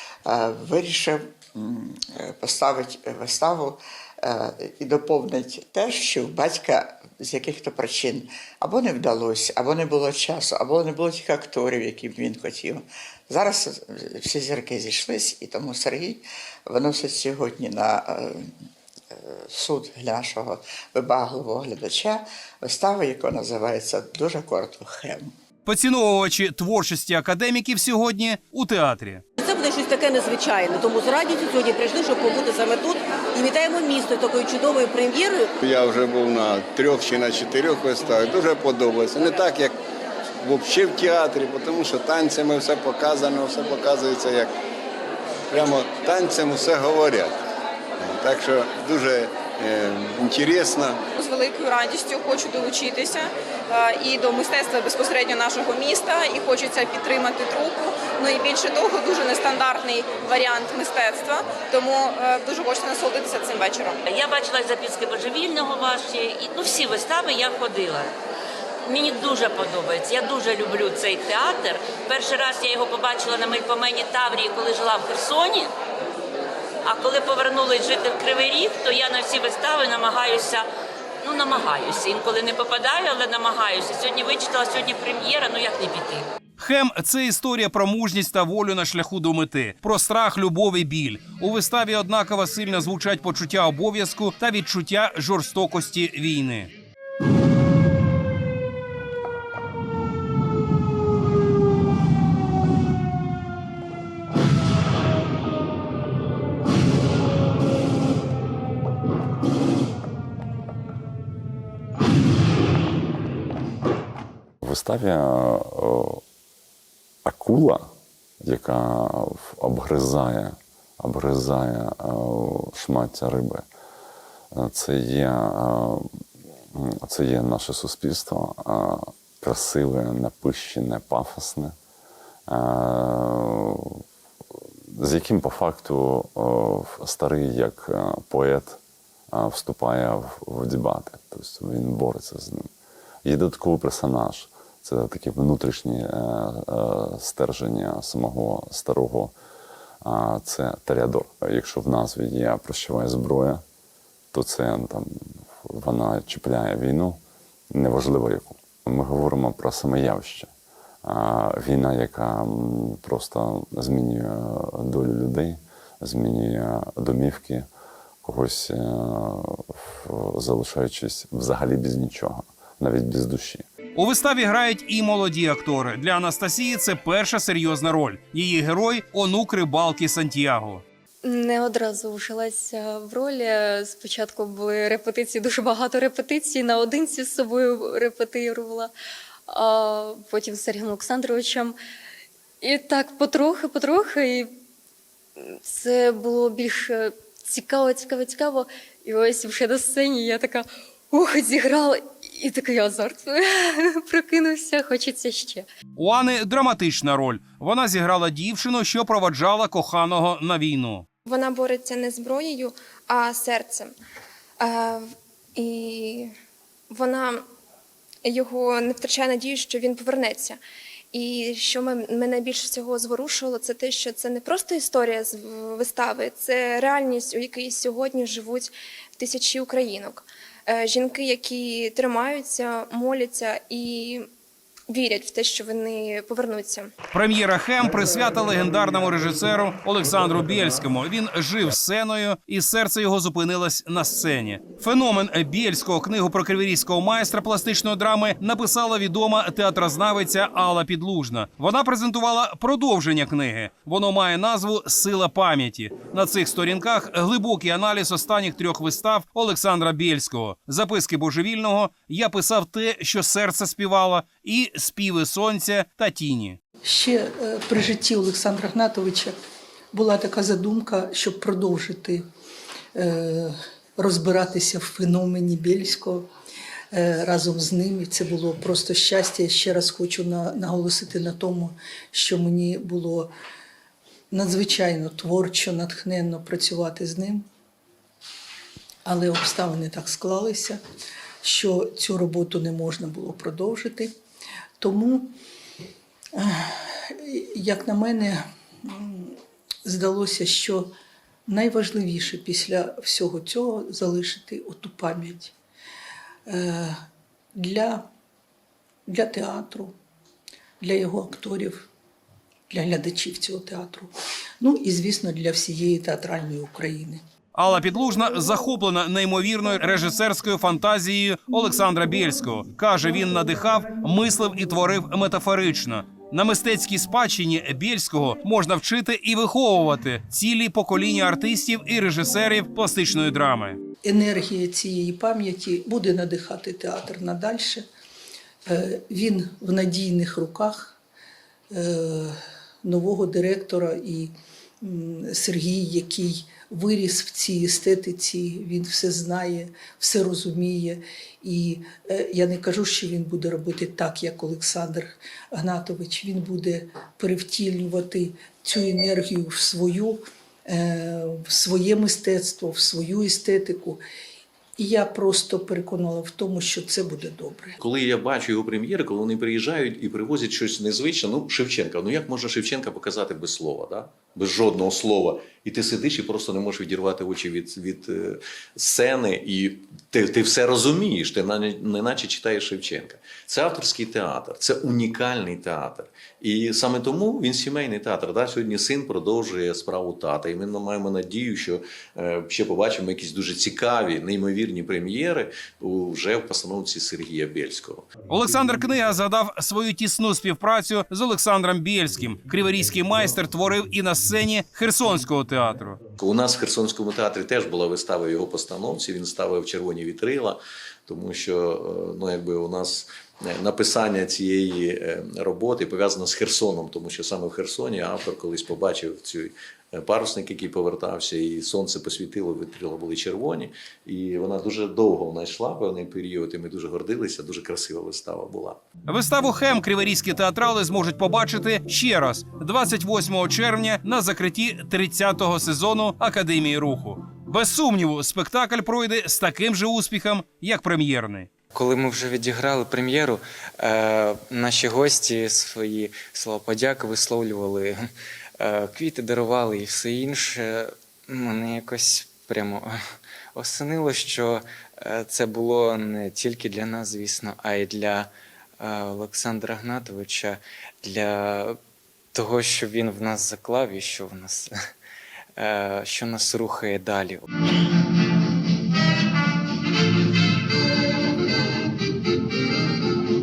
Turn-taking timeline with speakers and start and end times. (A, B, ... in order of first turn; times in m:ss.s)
0:00.3-0:18.4 A
0:19.2-0:25.3 A
0:25.7-0:29.2 B
0:29.4-0:35.5 C
0:35.6-0:39.7 D
0:40.5-0:44.4 D
0:45.5-0:47.3 D
0:48.2-0:50.8 D
0:51.2-1:04.0 E
1:04.1-1:08.1 F
1:08.9-1:15.7 F
1:16.8-1:20.7 F
1:21.2-1:26.3 F
1:26.6-1:36.7 B
1:54.6-1:56.2 G
1:57.2-1:57.9 G
1:58.4-2:03.6 G
2:04.5-2:06.1 G
2:06.7-2:11.7 G
2:12.5-2:14.0 G
2:14.9-2:18.8 G
2:19.3-2:22.7 G
2:23.2-2:29.3 G
2:30.0-2:33.6 G
2:34.3-2:37.2 G
2:37.7-2:40.5 G
2:41.0-2:47.7 G
2:48.2-2:53.6 G
2:54.0-3:00.8 B
3:01.2-3:08.9 H
3:09.5-3:11.8 H
3:12.6-3:14.5 H
3:15.5-3:25.6 H
3:26.0-3:31.0 B
3:31.3-3:33.9 I
3:34.6-3:35.0 I
3:35.6-3:36.3 I
3:36.9-3:37.4 I
3:38.2-3:40.6 I
3:41.1-3:54.3 I
3:54.9-3:56.9 I
3:57.1-4:26.6 B
4:26.8-4:29.4 J
4:29.9-4:32.2 J
4:33.0-4:36.3 J
4:36.9-4:43.3 J
4:44.3-4:47.5 J
4:49.0-4:50.8 J
4:51.4-4:54.1 J
4:54.8-4:55.3 J
4:56.4-5:00.9 J
5:01.5-5:05.5 J
5:06.5-5:07.0 J
5:07.6-5:08.1 J
5:09.1-5:09.9 J
5:10.8-5:11.9 J
5:12.7-5:17.2 J
5:17.6-5:33.8 B
5:34.0-5:37.8 J
5:38.7-5:41.0 J
5:41.7-6:04.0 J
6:04.8-6:07.8 J
6:07.8-6:38.1 K
6:38.3-6:46.0 B
6:46.2-7:08.8 K
7:09.1-7:21.5 B
7:21.7-7:33.0 L
7:33.6-7:41.8 L
7:42.4-7:44.8 L
7:45.6-7:47.5 L